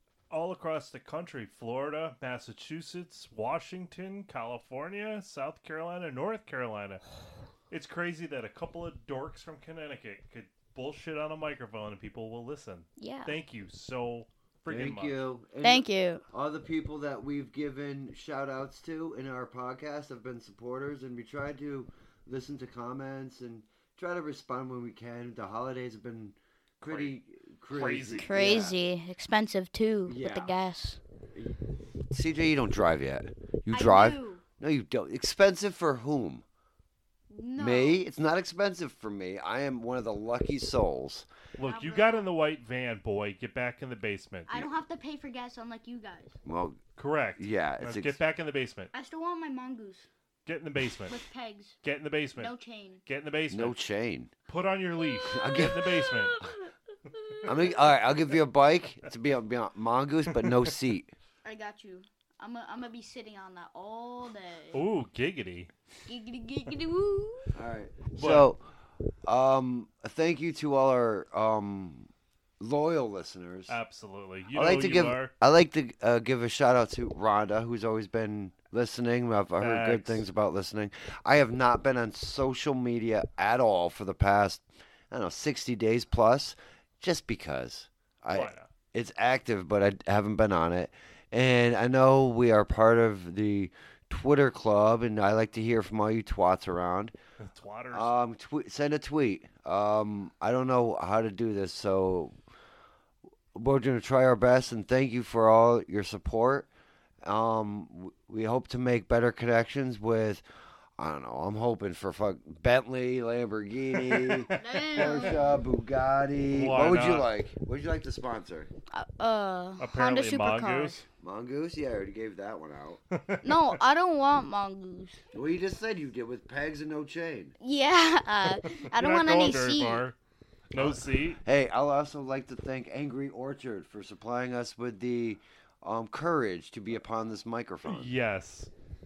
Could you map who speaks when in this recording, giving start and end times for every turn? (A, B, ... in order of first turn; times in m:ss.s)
0:00.3-0:07.0 A
0:07.7-0:15.2 A
0:13.0-0:13.4 B
0:14.7-0:28.8 C
0:15.6-0:16.2 B
0:26.8-0:27.1 A
0:27.7-0:28.3 A
0:28.2-0:31.0 B
0:30.0-0:30.5 C
0:31.3-0:31.6 C
0:32.1-0:36.4 C
0:33.7-0:34.4 B
0:37.3-0:38.0 B
0:37.6-0:41.3 C
0:41.6-0:44.7 A
0:41.6-0:42.3 B
0:44.5-0:46.3 B
0:46.4-0:46.8 C
0:47.0-0:48.9 A
0:47.4-0:48.2 C
0:48.9-0:50.1 B
0:50.4-0:51.2 A
0:51.0-0:51.8 B
0:51.8-0:52.5 A
0:52.4-0:53.0 B
0:53.0-0:53.8 A
0:53.5-0:54.3 C
0:54.5-0:56.4 A
0:55.2-0:55.9 C
0:56.1-0:57.5 B
0:57.4-1:01.1 C
1:00.4-1:00.6 A
1:01.4-1:04.8 B
1:04.7-1:05.7 A
1:06.1-1:07.5 B
1:07.5-1:08.6 C
1:08.1-1:08.5 A
1:09.2-1:13.8 C
1:13.7-1:15.3 A
1:14.5-1:37.1 C
1:19.6-1:20.2 A
1:28.3-1:28.7 A
1:37.4-1:38.1 A
1:37.9-1:42.4 C
1:43.5-1:46.7 C
1:47.2-1:50.4 C
1:51.0-1:58.7 C
1:54.0-1:55.4 A
1:54.5-1:55.6 B
1:56.5-1:57.3 A
1:58.9-2:01.0 B
1:59.8-2:01.0 A
2:01.2-2:03.0 C
2:03.1-2:03.8 A
2:03.4-2:05.2 B
2:05.3-2:07.5 C
2:07.6-2:10.0 B
2:08.6-2:10.2 A
2:10.7-2:11.4 A
2:10.8-2:18.1 C
2:17.8-2:18.7 A